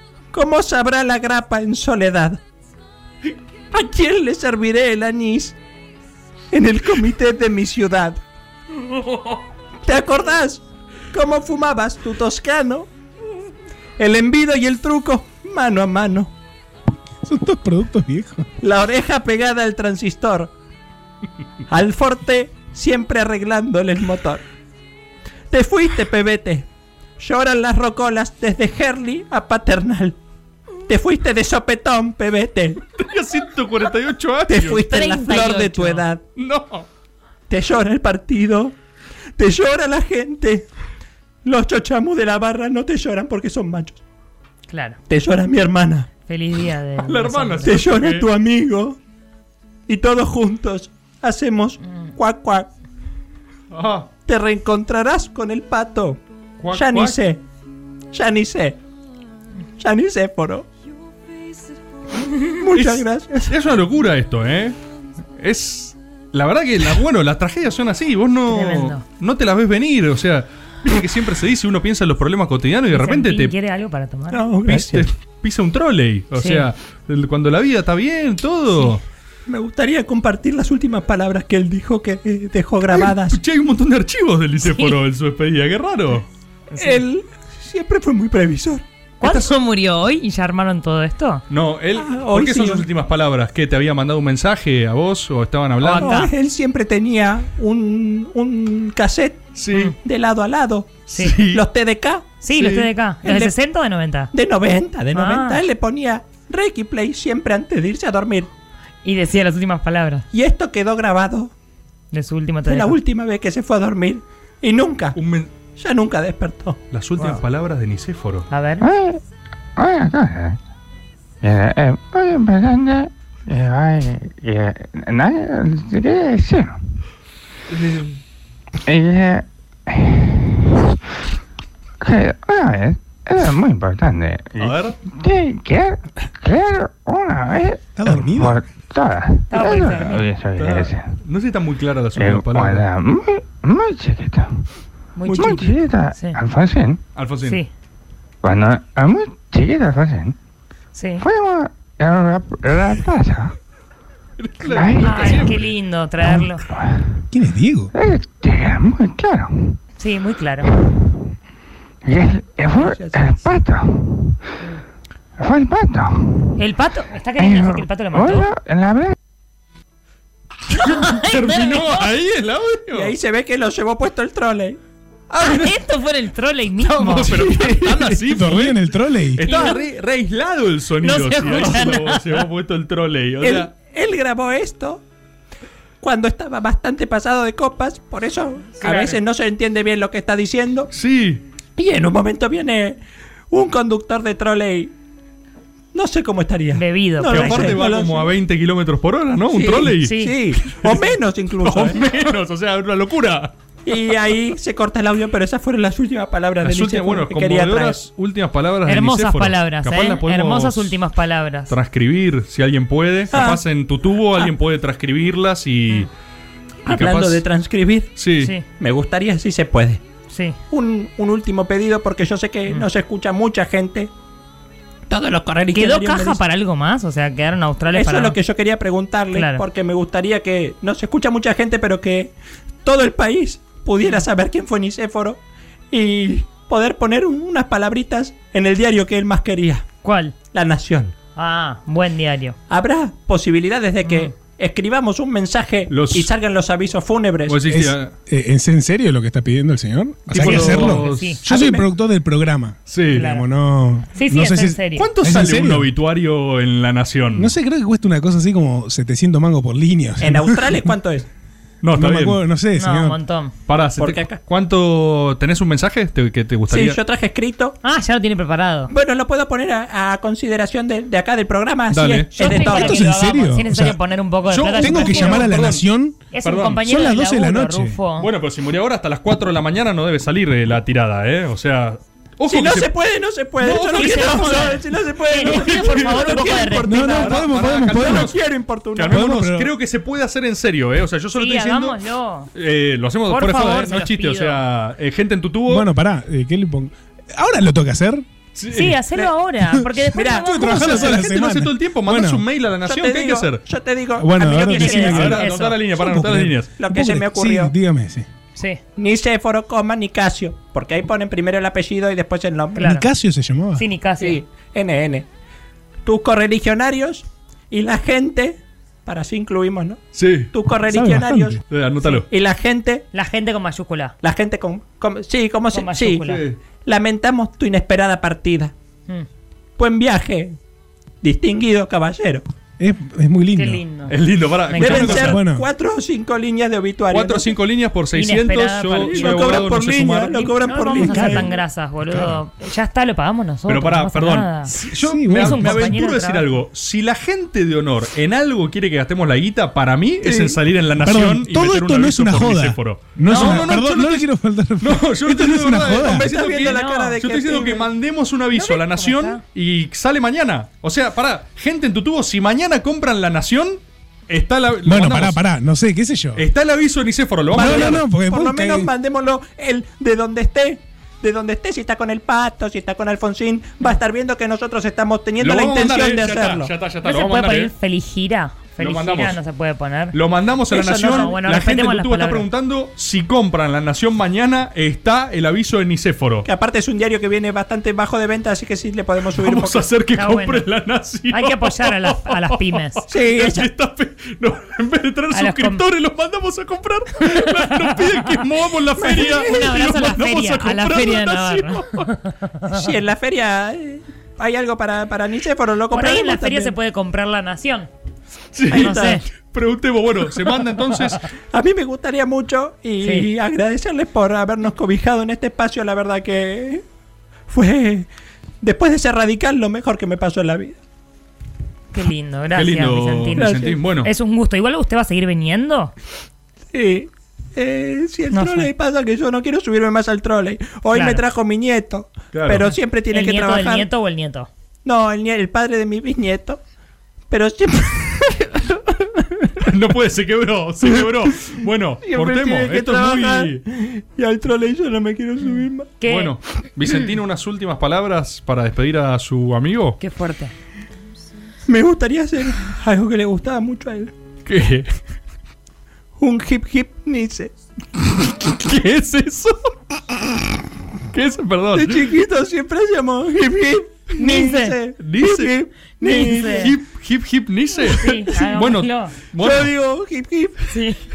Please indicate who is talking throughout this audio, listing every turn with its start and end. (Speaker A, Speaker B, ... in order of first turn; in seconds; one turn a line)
Speaker A: 0.3-2.4
Speaker A: 3.7-5.6
Speaker A: 6.5-8.2
Speaker A: 9.8-12.9
Speaker A: 14.0-16.3
Speaker B: 17.2-18.5
Speaker A: 18.6-20.5
Speaker A: 21.7-24.4
Speaker A: 25.5-26.6
Speaker A: 27.2-30.1
Speaker A: 30.9-32.8
Speaker C: 32.9-34.8
Speaker A: 34.5-36.2
Speaker D: 34.7-36.0
Speaker C: 36.4-36.9
Speaker A: 37.5-38.7
Speaker A: 39.4-40.7
Speaker A: 41.4-44.0
Speaker D: 44.7-45.0
Speaker A: 45.1-46.1
Speaker D: 46.3-47.8
Speaker C: 47.0-48.2
Speaker A: 47.6-49.0
Speaker A: 49.9-52.7
Speaker C: 53.7-54.1
Speaker A: 54.2-56.2
Speaker C: 56.6-57.2
Speaker A: 56.7-57.4
Speaker A: 58.1-58.8
Speaker A: 59.8-60.6
Speaker A: 62.6-63.5
Speaker C: 62.7-64.8
Speaker C: 65.4-73.5
Speaker D: 68.5-69.0
Speaker D: 72.9-74.4
Speaker A: 74.3-75.1
Speaker C: 74.7-79.0
Speaker D: 76.4-76.7
Speaker A: 79.5-83.4
Speaker C: 82.9-86.2
Speaker D: 84.6-85.0
Speaker D: 86.7-87.0
Speaker A: 86.8-88.8
Speaker D: 89.2-91.4
Speaker C: 89.2-89.5
Speaker C: 91.5-96.2
Speaker A: 92.0-92.8
Speaker D: 95.8-96.3
Speaker A: 95.9-102.4
Speaker C: 99.5-99.9
Speaker C: 101.1-101.6
Speaker D: 101.1-101.4
Speaker D: 102.4-104.3
Speaker C: 102.5-102.9
Speaker A: 103.2-103.5
Speaker A: 104.3-108.5
Speaker D: 105.1-105.6
Speaker D: 109.0-110.2
Speaker A: 110.3-111.5
Speaker D: 112.1-113.0
Speaker A: 112.7-115.2
Speaker C: 115.2-115.5
Speaker A: 115.7-116.8
Speaker C: 116.9-118.5
Speaker D: 118.5-118.8
Speaker E: 118.8-119.2
Speaker E: 119.8-120.6
Speaker E: 121.4-126.8
Speaker C: 127.7-128.1
Speaker E: 128.9-130.9
Speaker E: 132.0-141.1
Speaker C: 134.6-135.0
Speaker B: 137.9-138.6
Speaker D: 139.5-140.2
Speaker C: 140.6-142.8
Speaker E: 142.2-144.6
Speaker D: 145.2-146.4
Speaker A: 145.3-145.6
Speaker E: 145.4-147.0
Speaker C: 147.2-147.6
Speaker E: 148.4-150.3
Speaker D: 150.9-151.2
Speaker E: 151.2-153.5
Speaker C: 154.4-155.7
Speaker E: 154.7-155.4
Speaker D: 155.0-156.6
Speaker E: 156.2-157.2
Speaker B: 157.3-157.9
Speaker E: 157.9-159.8
Speaker D: 160.0-160.7
Speaker E: 160.6-161.2
Speaker E: 162.1-164.4
Speaker A: 162.8-163.4
Speaker E: 165.4-166.6
Speaker D: 166.6-168.5
Speaker E: 167.4-169.1
Speaker D: 170.7-172.1
Speaker C: 170.8-173.1
Speaker A: 172.9-174.8
Speaker C: 175.3-175.7
Speaker D: 175.4-177.6
Speaker C: 176.8-183.7
Speaker B: 178.2-179.6
Speaker D: 179.5-179.8
Speaker D: 181.0-182.4
Speaker A: 183.4-185.0
Speaker A: 186.0-190.9
Speaker D: 188.8-189.2
Speaker C: 190.9-191.4
Speaker A: 191.8-193.0
Speaker A: 193.5-194.9
Speaker A: 195.9-198.3
Speaker D: 196.7-197.8
Speaker C: 197.2-200.8
Speaker A: 199.5-202.0
Speaker D: 200.0-200.4
Speaker C: 201.6-203.5
Speaker A: 203.8-208.0
Speaker C: 206.6-210.9
Speaker D: 208.8-211.7
Speaker C: 211.7-216.1
Speaker A: 213.3-213.6
Speaker C: 216.8-217.4
Speaker A: 216.8-218.1
Speaker C: 218.2-218.5
Speaker A: 218.8-220.0
Speaker D: 220.3-220.6
Speaker A: 220.7-224.1
Speaker A: 225.1-226.4
Speaker D: 225.7-228.4
Speaker A: 227.9-232.3
Speaker D: 229.3-229.6
Speaker A: 232.8-235.4
Speaker A: 235.9-239.8
Speaker D: 240.0-240.3
Speaker A: 240.5-241.1
Speaker D: 241.3-242.6
Speaker A: 242.7-247.6
Speaker D: 244.0-244.3
Speaker C: 245.9-246.3
Speaker C: 247.5-248.1
Speaker B: 247.7-255.9
Speaker C: 250.3-251.5
Speaker D: 250.4-251.4
Speaker A: 251.5-251.8
Speaker C: 252.9-253.3
Speaker D: 253.1-253.4
Speaker D: 254.1-255.1
Speaker C: 255.0-257.6
Speaker B: 257.3-260.9
Speaker A: 260.2-261.3
Speaker C: 261.8-262.4
Speaker B: 261.9-263.2
Speaker D: 262.8-263.5
Speaker C: 263.7-267.0
Speaker A: 264.0-264.4
Speaker A: 266.7-267.8
Speaker D: 267.8-268.9
Speaker A: 268.9-273.0
Speaker C: 271.9-272.3
Speaker D: 272.4-275.5
Speaker B: 272.6-274.0
Speaker C: 274.5-275.9
Speaker B: 274.8-278.0
Speaker D: 276.3-278.3
Speaker C: 276.4-276.8
Speaker C: 278.2-282.9
Speaker A: 282.5-289.2
Speaker C: 283.6-284.8
Speaker D: 283.9-287.2
Speaker C: 285.4-286.4
Speaker B: 286.9-288.3
Speaker C: 287.0-288.4
Speaker C: 288.9-292.0
Speaker B: 289.1-289.7
Speaker D: 291.4-292.5
Speaker C: 292.5-295.9
Speaker D: 293.3-294.6
Speaker B: 295.7-298.2
Speaker C: 298.5-299.0
Speaker D: 298.7-301.2
Speaker A: 300.1-300.5
Speaker B: 300.2-302.4
Speaker C: 300.6-303.6
Speaker A: 302.8-305.2
Speaker B: 304.2-305.4
Speaker D: 304.6-305.8
Speaker C: 304.9-306.7
Speaker B: 305.9-308.2
Speaker A: 306.7-307.7
Speaker A: 309.0-312.8
Speaker D: 312.8-313.1
Speaker B: 312.8-313.8
Speaker D: 313.7-314.4
Speaker A: 314.2-315.2
Speaker A: 316.0-321.6
Speaker C: 320.1-320.5
Speaker B: 320.9-321.6
Speaker C: 321.6-322.3
Speaker A: 322.3-323.0
Speaker D: 323.1-324.1
Speaker A: 324.2-326.2
Speaker D: 325.7-326.4
Speaker C: 326.2-326.6
Speaker A: 326.8-328.7
Speaker A: 329.8-330.6
Speaker A: 331.2-332.4
Speaker B: 332.8-333.8
Speaker D: 333.6-335.4
Speaker C: 334.1-335.4
Speaker A: 334.8-337.5
Speaker B: 335.1-335.6
Speaker C: 337.1-341.5
Speaker D: 338.1-344.7
Speaker A: 339.0-341.5
Speaker C: 343.7-354.3
Speaker B: 345.0-345.9
Speaker D: 345.3-346.5
Speaker A: 350.2-350.5
Speaker B: 351.0-356.3
Speaker D: 353.3-353.7
Speaker C: 354.8-365.4
Speaker A: 356.0-357.9
Speaker D: 356.5-357.2
Speaker D: 358.5-359.4
Speaker B: 364.9-366.4
Speaker C: 366.4-368.1
Speaker A: 367.5-376.7
Speaker B: 367.5-368.9
Speaker C: 375.4-377.7
Speaker D: 377.0-380.1
Speaker C: 378.8-379.4
Speaker C: 380.1-386.5
Speaker A: 380.7-381.3
Speaker D: 380.7-382.5
Speaker A: 386.4-389.9
Speaker C: 389.4-402.0
Speaker D: 390.1-390.6
Speaker D: 391.3-393.1
Speaker A: 393.1-393.7
Speaker D: 395.3-395.8
Speaker D: 397.4-398.2
Speaker A: 399.0-399.5
Speaker D: 399.0-402.8
Speaker A: 402.7-406.7
Speaker D: 405.9-407.9
Speaker C: 408.5-411.2
Speaker D: 408.7-409.2
Speaker A: 408.7-409.2
Speaker A: 411.5-416.8
Speaker D: 413.0-413.3
Speaker A: 417.5-418.1
Speaker A: 418.6-420.8
Speaker D: 421.9-425.9
Speaker C: 422.5-424.1
Speaker A: 423.4-423.7
Speaker A: 426.7-433.9
Speaker D: 428.3-428.7
Speaker D: 430.9-431.2
Speaker C: 432.3-432.7
Speaker D: 432.6-434.5
Speaker A: 434.8-436.6
Speaker A: 437.3-438.5
Speaker C: 439.6-443.6
Speaker A: 442.0-446.0
Speaker D: 446.0-446.3
Speaker C: 446.1-450.0
Speaker D: 450.0-450.5
Speaker A: 451.7-454.1
Speaker C: 454.4-454.9
Speaker A: 456.2-457.5
Speaker C: 458.2-459.7
Speaker C: 461.1-462.1
Speaker A: 461.7-466.7
Speaker D: 464.2-464.8
Speaker C: 465.0-465.5
Speaker D: 466.0-466.8
Speaker C: 466.1-469.7
Speaker D: 467.9-469.1
Speaker A: 469.4-470.7
Speaker D: 470.7-471.0